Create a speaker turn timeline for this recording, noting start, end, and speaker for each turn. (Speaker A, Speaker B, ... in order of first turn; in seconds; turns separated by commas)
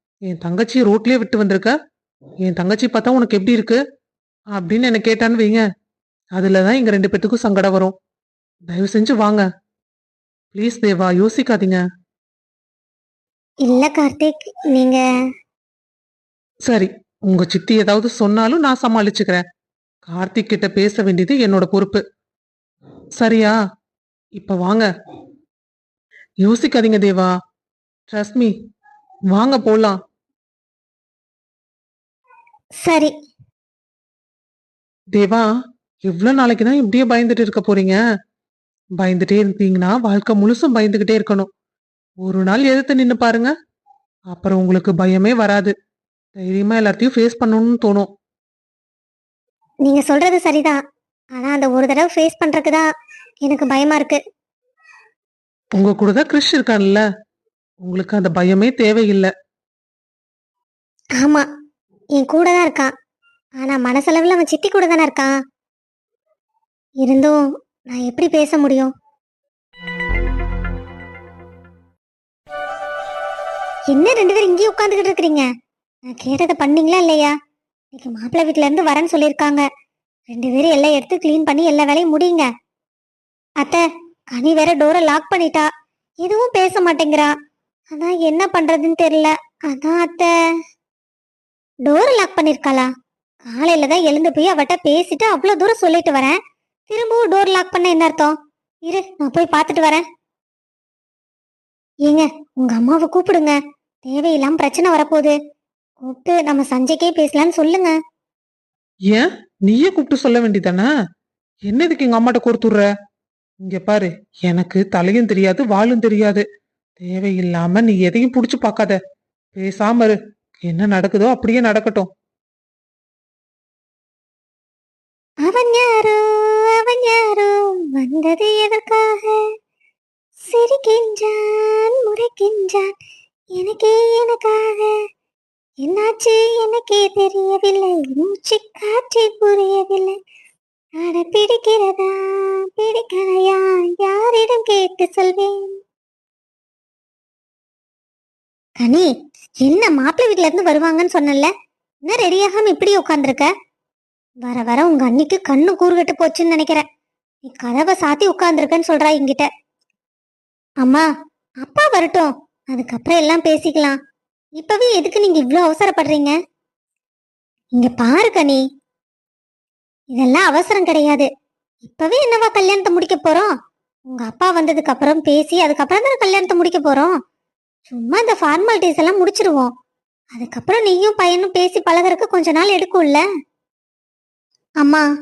Speaker A: 0.3-1.8, Speaker A: 2.5-3.8, Speaker A: 4.5-5.6, Speaker A: 6.3-7.9, Speaker A: 8.7-9.4, Speaker A: 10.5-11.8, Speaker B: 13.7-15.0, Speaker A: 16.7-19.4, Speaker A: 20.1-22.0, Speaker A: 23.2-23.5, Speaker A: 24.4-24.9, Speaker A: 26.4-27.3, Speaker A: 28.1-28.5, Speaker A: 29.3-30.0, Speaker B: 32.8-33.1, Speaker A: 35.1-35.4, Speaker A: 36.0-38.0, Speaker A: 39.0-41.5, Speaker A: 42.2-43.5, Speaker A: 44.3-45.7, Speaker A: 46.4-48.1, Speaker B: 49.9-50.8, Speaker B: 51.4-52.9, Speaker B: 53.4-54.2, Speaker A: 55.8-57.0, Speaker A: 57.8-59.3, Speaker B: 61.2-61.5, Speaker B: 62.2-62.9, Speaker B: 63.6-65.3, Speaker B: 67.0-68.9, Speaker B: 73.9-75.5, Speaker B: 76.1-77.3, Speaker B: 77.9-79.6, Speaker B: 80.3-82.5, Speaker B: 84.3-85.7, Speaker B: 86.2-87.3, Speaker B: 87.9-90.3, Speaker B: 91.9-92.9, Speaker B: 93.5-96.4, Speaker B: 96.9-98.3, Speaker B: 98.9-100.0, Speaker B: 102.1-105.3, Speaker B: 106.0-108.0, Speaker A: 109.1-110.9, Speaker A: 111.7-112.9, Speaker A: 113.6-116.5, Speaker A: 117.0-119.0, Speaker A: 119.5-122.1, Speaker B: 125.5-129.4, Speaker B: 130.5-132.9, Speaker B: 133.6-135.0, Speaker B: 135.8-140.2, Speaker B: 141.0-145.8, Speaker B: 148.8-149.1, Speaker B: 149.6-151.5, Speaker B: 152.1-153.5, Speaker B: 154.4-156.8, Speaker B: 157.4-159.5, Speaker B: 161.6-164.0, Speaker B: 164.6-166.3, Speaker B: 167.8-168.6, Speaker B: 170.1-171.3, Speaker B: 171.8-173.5, Speaker B: 174.1-177.1, Speaker B: 177.9-179.7, Speaker B: 180.3-183.2